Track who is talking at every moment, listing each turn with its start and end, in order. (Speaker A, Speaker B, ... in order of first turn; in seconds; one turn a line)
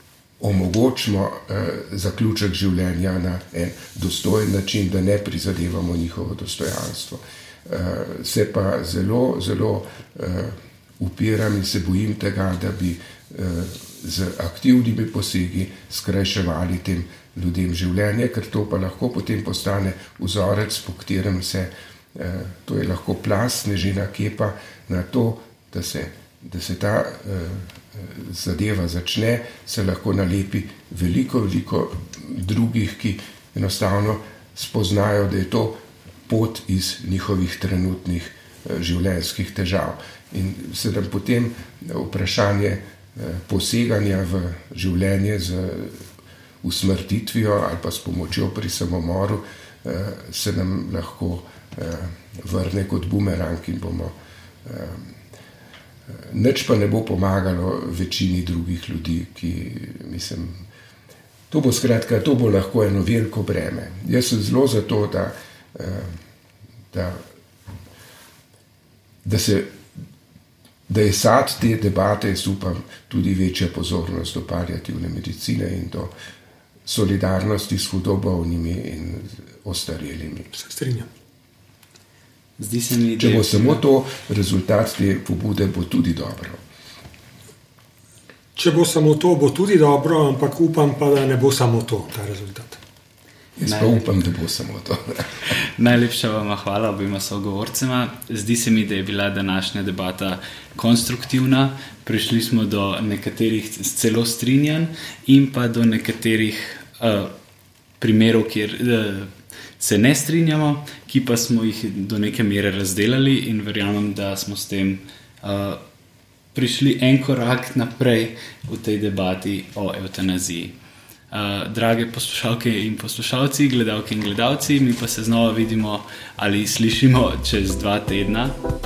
Speaker A: 0.4-46.0
Speaker A: 46.6-55.1
Speaker A: 56.1-60.6
Speaker A: 61.5-66.2
Speaker A: 66.9-67.2
Speaker A: 69.2-69.8
Speaker A: 70.9-76.1
Speaker A: 76.9-80.5
Speaker B: 80.5-81.1
Speaker C: 82.6-83.8
Speaker A: 83.2-86.6
Speaker B: 88.6-92.8
Speaker A: 93.6-95.3
Speaker C: 93.6-94.1
Speaker C: 95.5-107.3
Speaker C: 108.0-115.8
Speaker C: 116.5-120.8
Speaker C: 121.3-128.6